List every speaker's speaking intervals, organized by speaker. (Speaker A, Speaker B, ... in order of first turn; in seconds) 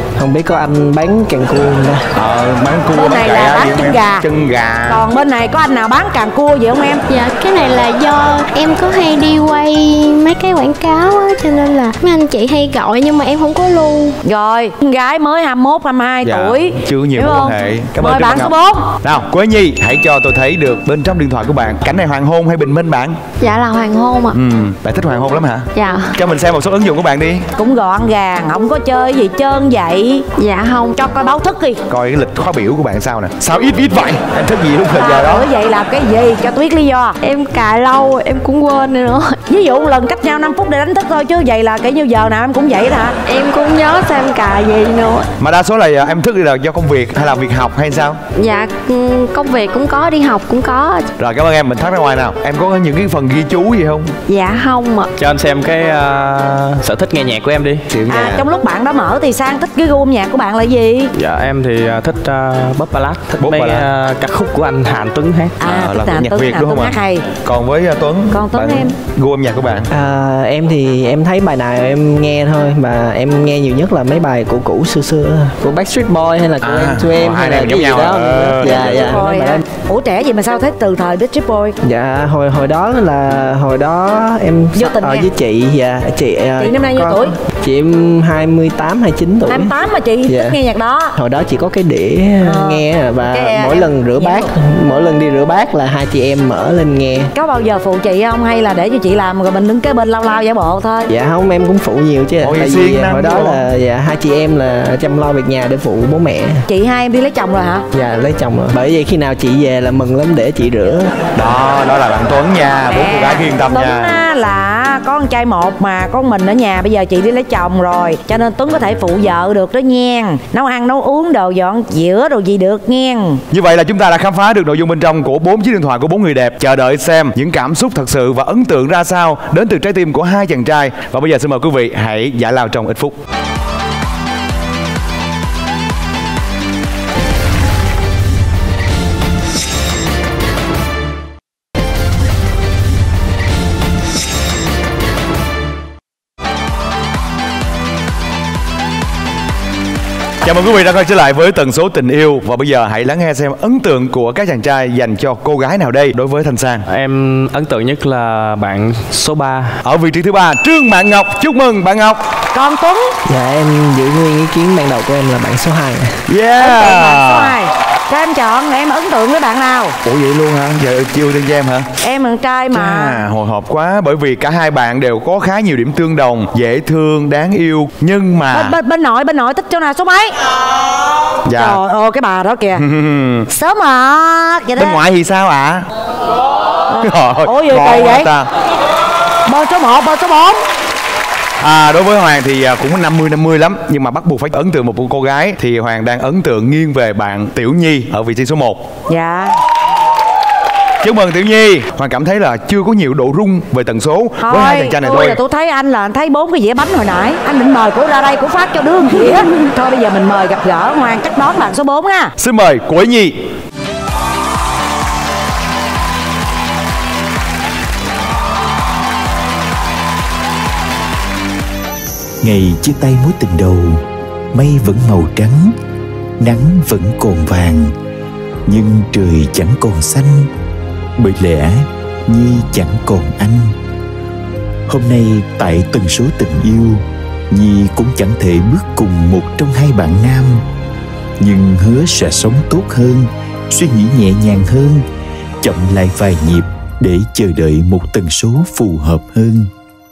Speaker A: 0.2-2.0, 7.1-14.2, 69.9-79.6, 81.8-89.7, 90.3-90.6, 91.2-97.3, 101.1-106.6, 107.9-111.1, 163.2-166.1
Speaker B: 2.1-5.0, 16.2-23.2, 24.3-27.4, 31.9-35.4, 45.4-48.2, 51.2-54.1, 63.4-63.9, 65.6-69.9, 76.6-79.2, 102.4-103.7, 111.3-114.1, 123.5-133.2, 150.4-156.8, 159.8-162.2, 166.3-167.5, 170.0-171.9, 172.7-178.7, 181.4-181.8, 182.7-183.5, 184.8-185.8, 187.0-188.5, 191.6-198.8, 201.0-205.4, 212.4-213.3
Speaker C: 2.9-4.3, 4.9-7.0, 14.2-18.9, 27.6-30.2, 30.9-31.8, 34.9-37.2, 39.5-43.1, 58.1-61.1, 65.6-67.3, 68.3-68.9, 78.6-81.8, 84.7-85.3, 86.6-87.3, 89.5-91.1, 92.4-94.5, 97.3-101.1, 106.7-107.8, 112.9-123.4, 162.5-163.1, 166.6-169.9, 172.0-173.2, 178.5-180.3, 181.5-182.8, 183.5-185.0, 186.9-188.3, 189.4-190.6, 199.1-199.5, 204.4-212.3
Speaker D: 23.4-24.4, 25.7-26.1, 30.4-30.9, 37.2-39.4, 43.2-45.3, 48.4-51.0, 54.3-55.1
Speaker E: 55.2-58.3, 61.1-65.6, 156.9-159.8
Speaker F: 222.4-225.7, 226.4-227.9, 228.7-230.5, 231.2-233.7, 234.9-240.6, 241.4-245.0, 245.6-249.7